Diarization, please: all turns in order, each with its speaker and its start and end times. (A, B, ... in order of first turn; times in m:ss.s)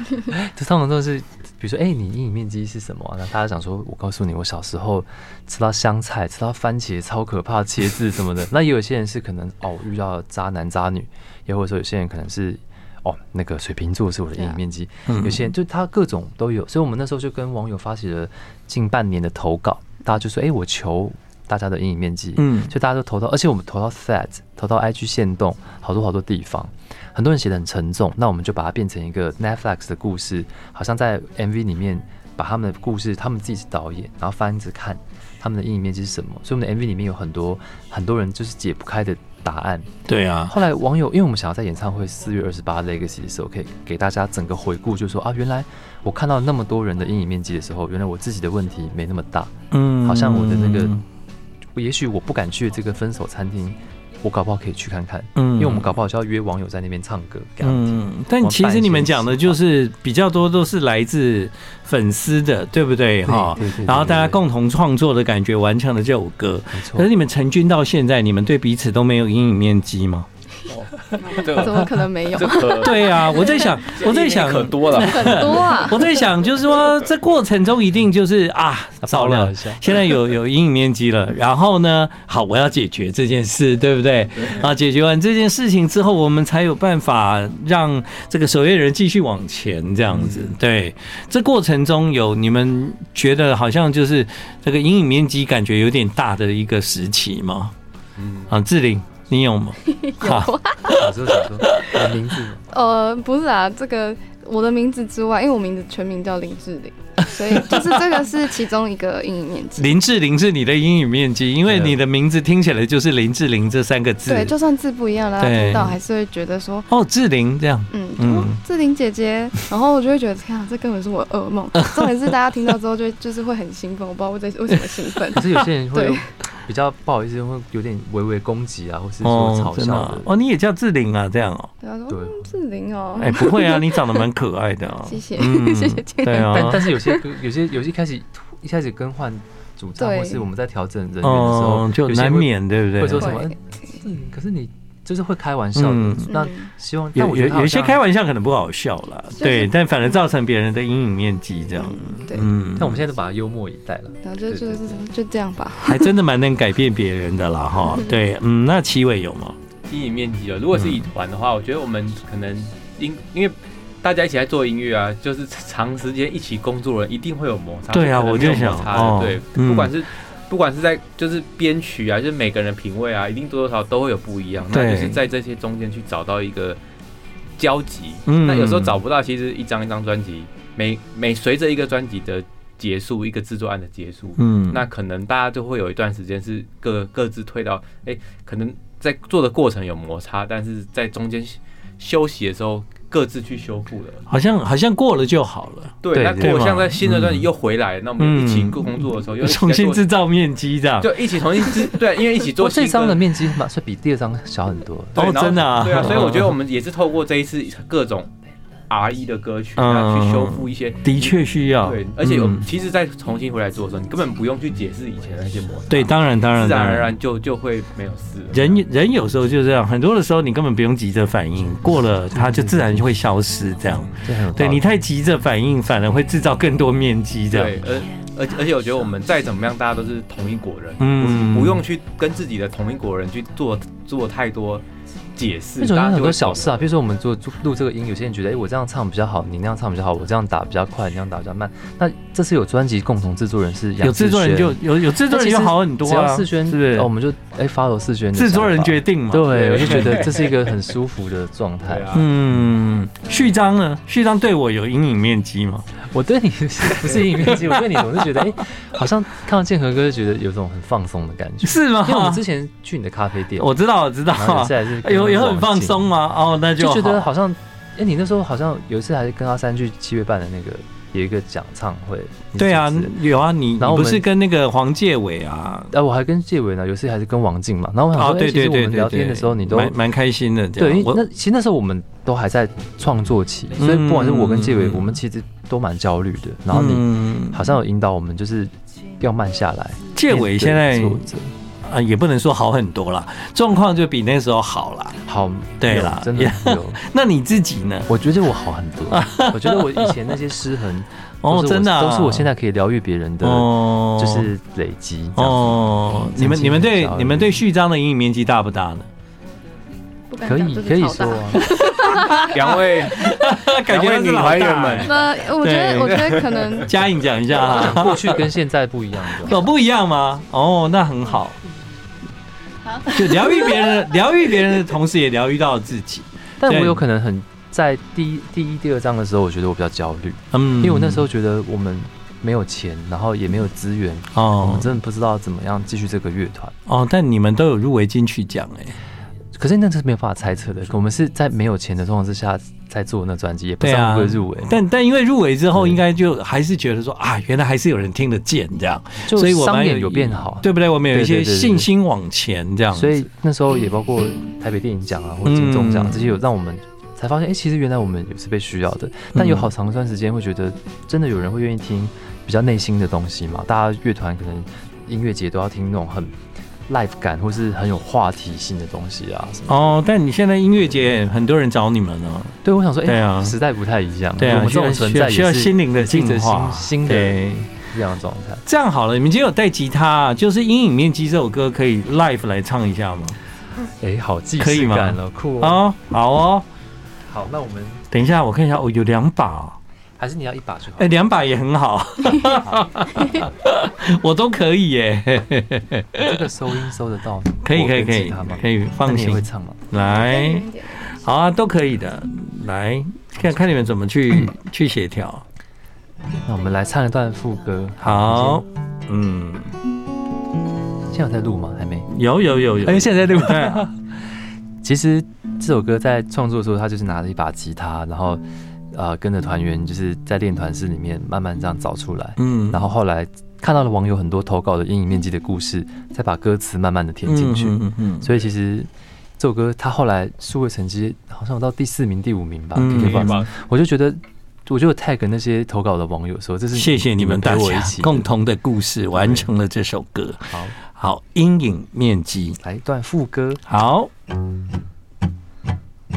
0:00.3-0:39.9 A
0:15.1-0:15.5 B
0:22.4-0:22.7 B
0:40.1-0:40.5 B
0:40.5-0:51.0 A
0:49.7-0:51.0 B
0:51.8-0:59.6 A
0:55.4-0:55.9 B
0:57.6-1:10.3 B
1:03.2-1:04.4 A
1:06.7-1:07.1 A
1:10.7-1:15.7 C
1:11.2-1:13.8 D
1:12.7-1:37.7 B
1:14.9-1:16.1 D
1:19.0-1:19.9 A
1:30.1-1:30.5 C
1:38.2-1:38.5 C
1:38.5-1:42.0 B
1:39.8-1:41.0 D
1:40.9-1:42.6 A
1:42.7-1:49.9 D
1:47.3-1:48.2 B
1:49.8-1:54.5 B
1:51.7-1:51.9 A
1:54.2-1:56.9 D
1:55.4-1:56.0 B
1:56.9-1:58.6 B
1:57.9-2:06.3 D
2:01.7-2:02.1 B
2:05.3-2:10.3 A
2:09.2-2:11.7 B
2:11.8-2:14.2 D
2:12.1-2:12.5 A
2:13.2-2:16.9 B
2:15.0-2:17.2 D
2:16.5-2:28.0 A
2:20.0-2:20.4 D
2:21.2-2:23.4 B
2:23.2-2:23.6 D
2:25.7-2:26.3 B
2:26.3-2:26.7 D
2:27.1-2:33.0 B
2:29.4-2:29.7 D
2:31.8-2:32.5 D
2:32.7-2:35.0 A
2:34.2-2:36.1 D
2:35.8-2:39.6 B
2:39.9-2:56.8 C
2:40.8-2:41.0 B
2:47.9-2:50.0 B
2:54.7-2:55.2 B
2:57.6-3:14.2 C
2:58.2-2:59.0 B
3:04.4-3:04.8 B
3:14.3-3:17.5 B
3:16.0-3:20.1 C
3:16.1-3:16.8 A
3:18.2-3:21.9 B
3:21.0-3:23.2 C
3:22.6-3:25.4 A
3:25.1-3:28.3 C
3:25.1-3:26.5 B
3:28.9-3:38.8 C
3:29.8-3:32.7 B
3:35.9-3:37.1 B
3:38.5-3:47.8 B
3:42.3-3:43.1 A
3:44.2-3:44.9 A
3:47.5-3:54.8 C
3:51.0-3:51.8 B
3:55.4-3:56.8 C
3:55.8-4:12.1 A
4:04.0-4:07.1 B
4:08.3-4:10.3 B
4:09.5-4:10.6 C
4:11.8-4:12.3 C
4:12.1-4:15.8 B
4:16.1-4:23.7 A
4:17.6-4:18.4 B
4:21.6-4:22.4 B
4:23.6-4:27.3 B
4:24.3-4:26.0 A
4:26.8-4:33.2 A
4:32.6-4:35.9 B
4:33.8-4:34.2 A
4:35.9-4:40.0 A
4:38.1-4:41.2 B
4:40.8-4:51.5 A
4:43.8-4:45.2 B
4:46.7-4:47.7 B
4:50.2-4:51.3 B
4:51.8-4:55.2 B
4:55.2-4:57.0 A
4:55.8-4:58.1 B
4:58.1-5:07.6 A
4:59.1-5:00.1 B
5:01.4-5:02.5 B
5:03.4-5:04.5 B
5:05.4-5:09.1 B
5:10.3-5:12.5 D
5:10.4-5:11.7 A
5:11.7-5:18.5 B
5:12.4-5:15.2 C
5:15.0-5:16.9 D
5:17.6-5:19.6 A
5:19.3-5:21.6 B
5:22.9-5:23.9 D
5:23.0-5:27.0 B
5:26.6-5:36.7 A
5:30.5-5:31.3 B
5:34.3-5:34.9 B
5:36.9-5:39.0 B
5:39.6-5:44.8 A
5:43.8-5:53.2 B
5:49.2-5:51.9 A
5:52.9-6:06.3 A
5:55.4-5:56.3 B
5:59.3-5:59.7 B
6:06.9-6:09.9 A
6:09.7-6:13.6 B
6:12.6-6:18.6 A
6:14.4-6:17.7 B
6:18.6-6:23.4 B
6:23.8-6:25.8 A
6:24.6-6:26.6 B
6:27.3-6:28.0 A
6:28.1-6:29.8 B
6:30.2-6:31.2 A
6:31.0-6:36.4 B
6:36.2-6:39.8 A
6:37.6-6:45.4 B
6:39.9-6:41.2 D
6:46.4-6:48.6 A
6:48.0-6:49.7 B
6:51.1-6:52.1 A
6:52.1-6:53.9 B
6:52.8-6:54.0 A
6:54.8-7:18.3 A
7:02.4-7:02.8 B
7:07.2-7:08.3 B
7:12.7-7:13.4 B
7:12.9-7:13.5 C
7:16.7-7:22.6 B
7:19.2-7:19.5 A
7:20.5-7:20.8 A
7:22.6-7:23.6 A
7:23.7-7:24.1 B